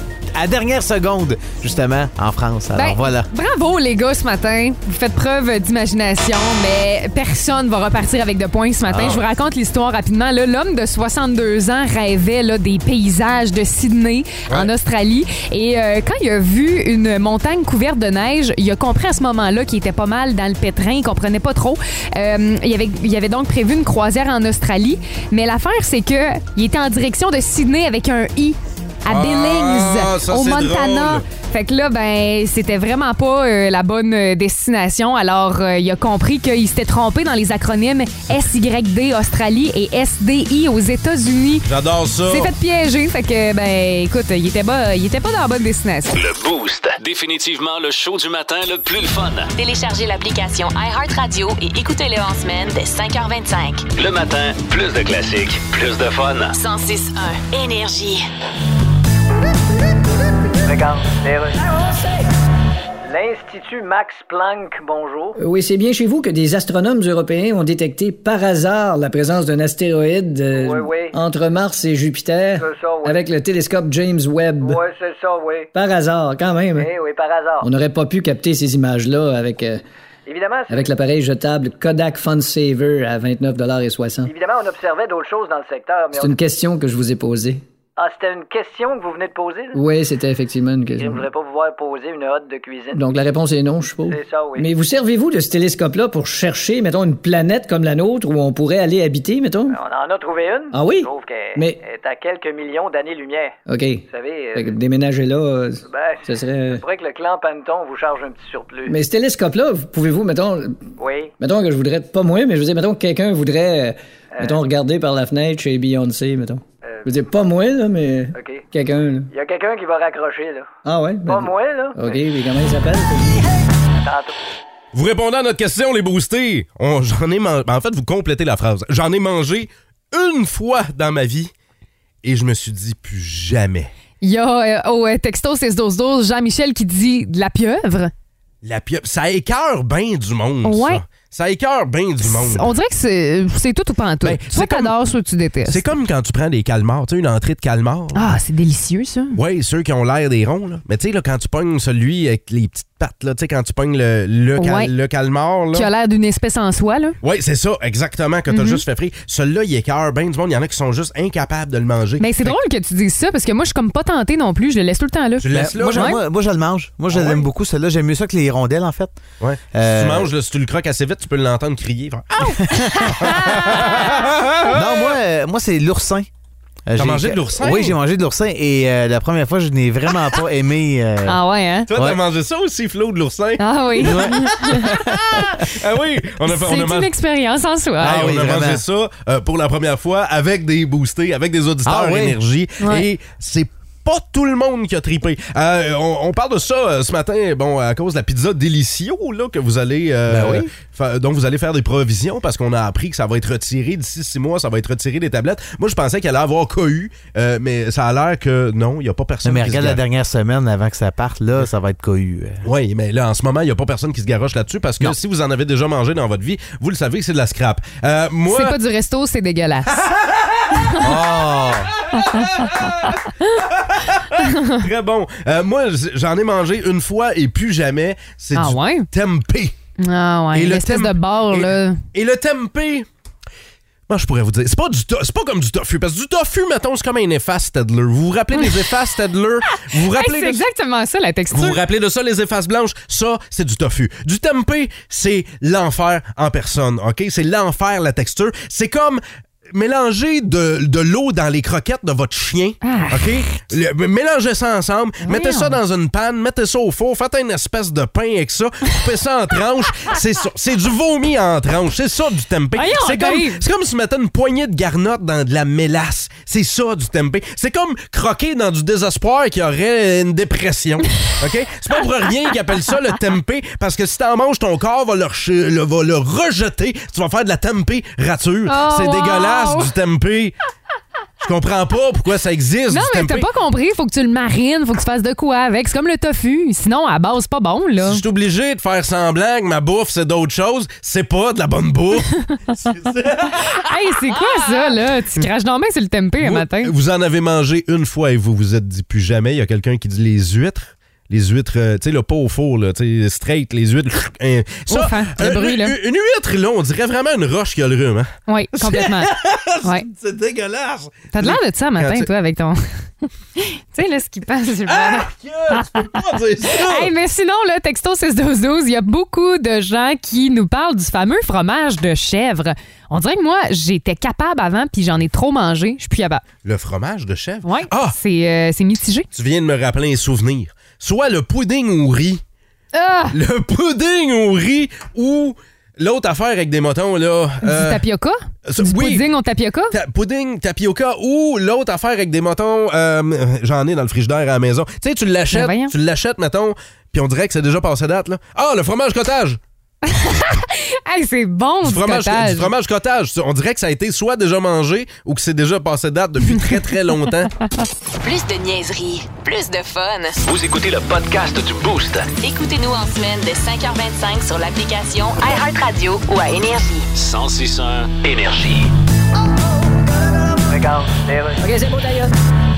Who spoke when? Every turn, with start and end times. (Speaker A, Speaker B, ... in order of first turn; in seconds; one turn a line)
Speaker A: 0.3-3.3
Speaker B: 2.8-41.7
Speaker C: 8.9-9.2
Speaker C: 29.1-31.2
Speaker C: 41.6-42.5
Speaker B: 42.3-46.1
Speaker D: 46.1-49.5
Speaker E: 49.6-53.9
Speaker D: 54.0-56.6
Speaker E: 56.5-58.3
Speaker F: 60.6-61.9
Speaker F: 63.0-65.4
Speaker G: 65.4-74.8
Speaker F: 70.5-71.2
Speaker F: 72.6-73.2
Speaker F: 74.6-75.7
Speaker G: 75.8-76.9
Speaker F: 76.8-77.7
Speaker G: 77.6-79.8
Speaker F: 80.3-80.9
Speaker G: 80.7-84.3
Speaker F: 84.2-86.4
Speaker G: 86.1-87.6
Speaker F: 88.0-89.8
Speaker G: 89.8-91.2
Speaker F: 91.0-93.0
Speaker G: 92.9-99.8
Speaker F: 94.1-94.7
Speaker F: 99.7-104.8
Speaker G: 100.7-101.8
Speaker G: 103.7-106.8
Speaker F: 105.9-109.0
Speaker G: 108.9-110.8
Speaker F: 111.0-111.3
Speaker G: 111.4-119.3
Speaker F: 114.3-114.6
Speaker F: 118.3-118.7
Speaker F: 119.3-120.7
Speaker G: 120.8-123.4
Speaker F: 121.3-122.2
Speaker F: 124.0-124.3
Speaker C: 124.9-131.5
Speaker C: 132.2-133.9
Speaker B: 134.2-138.1
Speaker C: 138.6-142.7
Speaker B: 140.6-141.0
Speaker B: 142.2-145.9
Speaker C: 144.2-144.9
Speaker C: 145.7-148.3
Speaker B: 148.1-149.4
Speaker C: 149.3-155.9
Speaker B: 154.6-154.9
Speaker B: 155.7-157.2
Speaker C: 157.2-162.6
Speaker B: 158.5-158.8
Speaker B: 162.2-166.2
Speaker C: 165.4-166.1
Speaker A: 165.5-169.2
Speaker C: 167.1-167.5
Speaker C: 169.4-174.8
Speaker A: 169.8-170.3
Speaker B: 172.5-173.8
Speaker A: 172.7-173.4
Speaker A: 174.7-176.3
Speaker A: 176.9-181.4
Speaker C: 177.0-178.0
Speaker B: 181.3-181.9
Speaker C: 181.9-187.1
Speaker A: 181.9-182.2
Speaker B: 183.6-184.9
Speaker A: 184.0-185.4
Speaker B: 186.5-188.2
Speaker A: 188.0-188.8
Speaker C: 188.0-210.0
Speaker A: 191.8-192.4
Speaker B: 192.8-193.1
Speaker A: 200.3-200.7
Speaker A: 209.4-212.6
Speaker C: 212.6-218.8
Speaker B: 218.5-220.0
Speaker C: 220.0-220.7
Speaker A: 221.0-221.9
Speaker C: 222.1-229.7
Speaker B: 224.4-224.8
Speaker B: 228.6-229.1
Speaker B: 230.0-232.0
Speaker C: 230.5-233.1
Speaker C: 234.1-240.6
Speaker B: 239.8-241.8
Speaker C: 241.5-280.6
Speaker B: 252.8-253.4
Speaker B: 255.2-255.8
Speaker B: 262.8-263.6
Speaker B: 278.7-279.9
Speaker C: 281.4-283.5
Speaker B: 282.9-288.2
Speaker C: 288.0-295.4
Speaker B: 292.5-292.8
Speaker B: 293.6-296.9
Speaker C: 296.4-312.3
Speaker B: 304.9-306.0
Speaker B: 308.5-309.3
Speaker B: 311.3-316.0
Speaker C: 314.9-317.1
Speaker B: 316.6-326.4
Speaker C: 326.6-328.2
Speaker B: 327.6-329.3
Speaker C: 329.3-332.4
Speaker B: 332.9-333.4
Speaker C: 333.3-338.0
Speaker B: 337.6-339.9
Speaker C: 338.6-339.2
Speaker C: 339.9-349.6
Speaker B: 345.5-345.9
Speaker B: 350.1-352.7
Speaker C: 351.8-357.5
Speaker E: 358.2-360.4
Speaker D: 360.5-362.3
Speaker E: 362.4-367.1
Speaker D: 367.1-368.9
Speaker F: 370.6-372.3